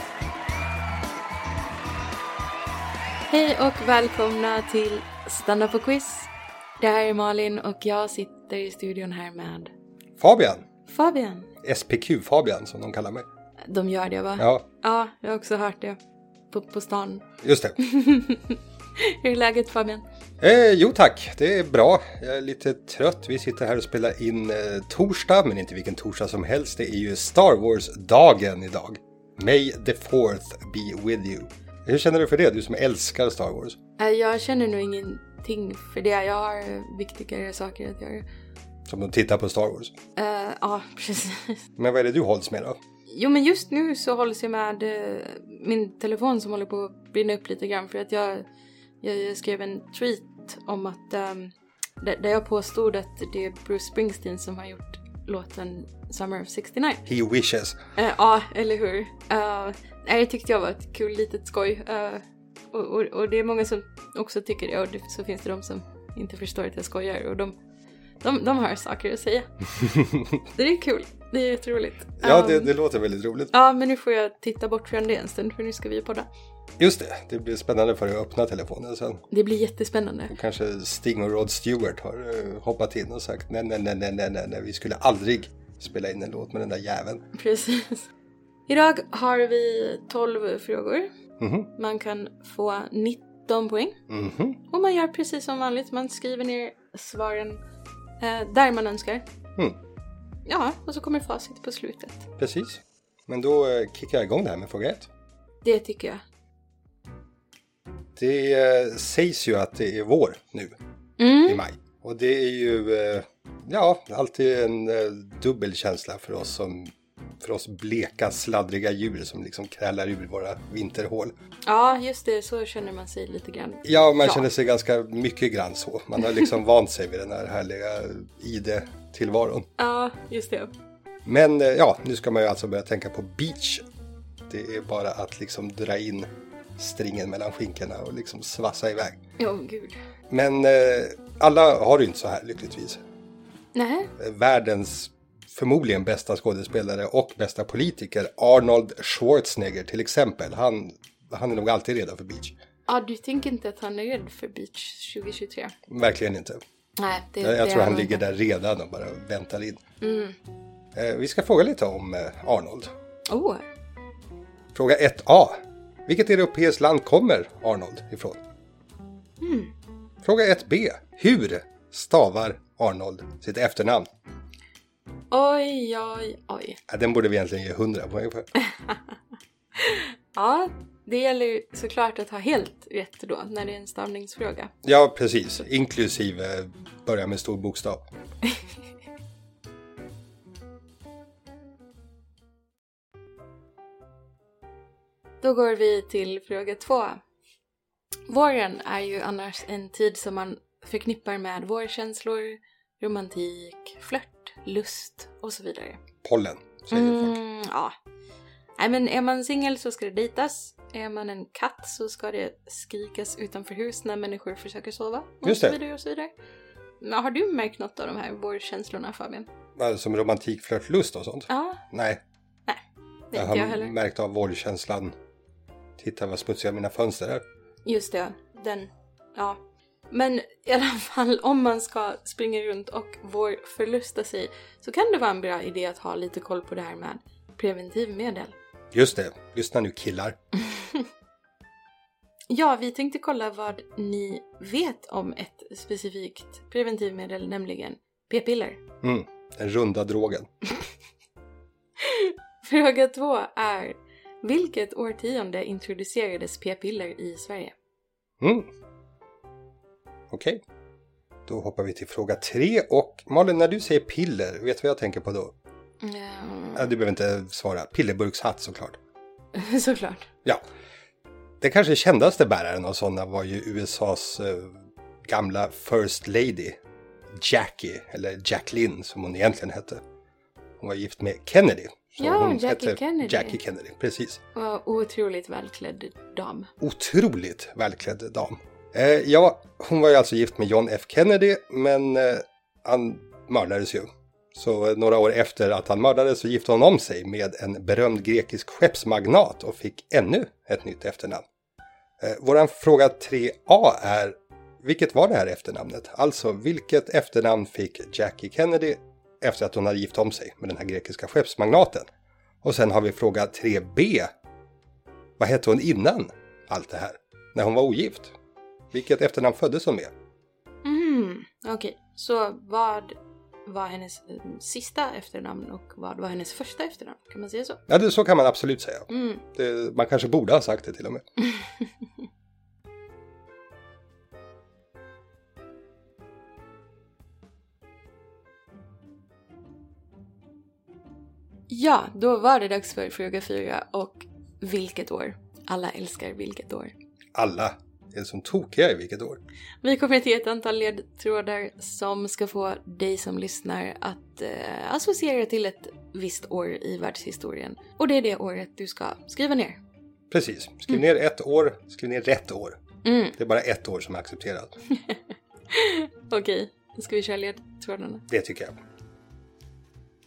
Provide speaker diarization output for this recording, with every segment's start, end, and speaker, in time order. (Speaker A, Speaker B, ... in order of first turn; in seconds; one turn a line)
Speaker A: 3.3-9.7
Speaker B: 10.2-10.7
Speaker A: 10.9-11.5
Speaker B: 11.6-13.3
Speaker A: 13.7-16.0
Speaker B: 14.4-14.7
Speaker A: 16.5-17.2
Speaker B: 17.4-17.8
Speaker A: 17.8-20.0
Speaker B: 20.4-33.8
Speaker A: 34.0-38.3
Speaker B: 38.9-39.9
Speaker A: 40.2-41.6
Speaker B: 41.8-42.8
Speaker A: 43.1-48.5
Speaker A: 49.0-57.0
Speaker B: 57.1-57.8
Speaker A: 58.0-67.5
Speaker A: 68.2-69.5
Speaker B: 69.9-70.2
Speaker A: 70.5-72.7
Speaker B: 72.2-73.5
Speaker A: 73.5-76.3
Speaker B: 76.8-79.2
Speaker A: 79.3-80.3
Speaker B: 80.3-87.2
Speaker A: 87.3-88.0
Speaker A: 88.7-91.1
Speaker B: 91.4-91.7
Speaker A: 91.8-94.0
Speaker B: 94.1-94.6
Speaker A: 94.7-97.6
Speaker A: 98.2-99.2
Speaker A: 100.5-102.3
Speaker B: 102.4-105.1
Speaker A: 105.6-106.2
Speaker B: 108.2-110.8
Speaker A: 111.2-111.6
Speaker B: 111.5-121.3
Speaker A: 121.7-124.5
Speaker B: 123.8-129.7
Speaker A: 129.8-130.7
Speaker B: 131.3-133.8
Speaker B: 134.5-139.2
Speaker A: 139.4-140.0
Speaker B: 140.3-143.0
Speaker A: 143.8-144.1
Speaker B: 144.2-152.6
Speaker A: 152.9-155.7
Speaker B: 155.9-156.6
Speaker A: 157.0-158.2
Speaker B: 157.4-159.8
Speaker A: 160.0-160.4
Speaker B: 160.9-162.9
Speaker A: 163.3-163.6
Speaker B: 164.8-168.4
Speaker A: 169.4-169.7
Speaker B: 170.2-174.1
Speaker A: 175.3-176.8
Speaker B: 176.9-178.5
Speaker A: 178.7-179.0
Speaker A: 179.8-184.7
Speaker B: 184.8-188.1
Speaker A: 195.4-197.2
Speaker A: 198.3-206.0
Speaker B: 206.2-207.4
Speaker A: 206.9-208.0
Speaker A: 208.8-216.3
Speaker B: 215.4-215.8
Speaker A: 217.0-219.5
Speaker B: 219.8-222.2
Speaker A: 221.5-221.8
Speaker A: 222.7-223.9
Speaker B: 223.3-225.2
Speaker B: 226.0-227.4
Speaker A: 227.8-229.6
Speaker A: 230.1-238.6
Speaker B: 238.9-240.4
Speaker A: 242.5-248.8
Speaker B: 249.0-250.5
Speaker A: 252.0-257.8
Speaker B: 258.4-258.7
Speaker B: 260.3-260.6
Speaker B: 261.5-265.5
Speaker A: 266.0-266.9
Speaker B: 266.8-269.0
Speaker A: 269.5-270.3
Speaker B: 271.6-276.8
Speaker B: 277.4-280.0
Speaker B: 280.8-284.4
Speaker A: 282.2-283.6
Speaker A: 284.6-286.7
Speaker B: 286.8-301.4
Speaker B: 302.2-312.1
Speaker B: 312.6-314.3
Speaker B: 315.4-318.3
Speaker B: 318.9-320.1
Speaker A: 320.8-327.8
Speaker B: 327.9-331.2
Speaker A: 329.1-329.4
Speaker A: 341.7-346.9
Speaker B: 347.4-349.4
Speaker A: 349.8-359.8
Speaker B: 360.3-362.8
Speaker A: 363.0-363.4
Speaker B: 363.4-364.7
Speaker A: 365.7-368.2
Speaker B: 368.3-368.8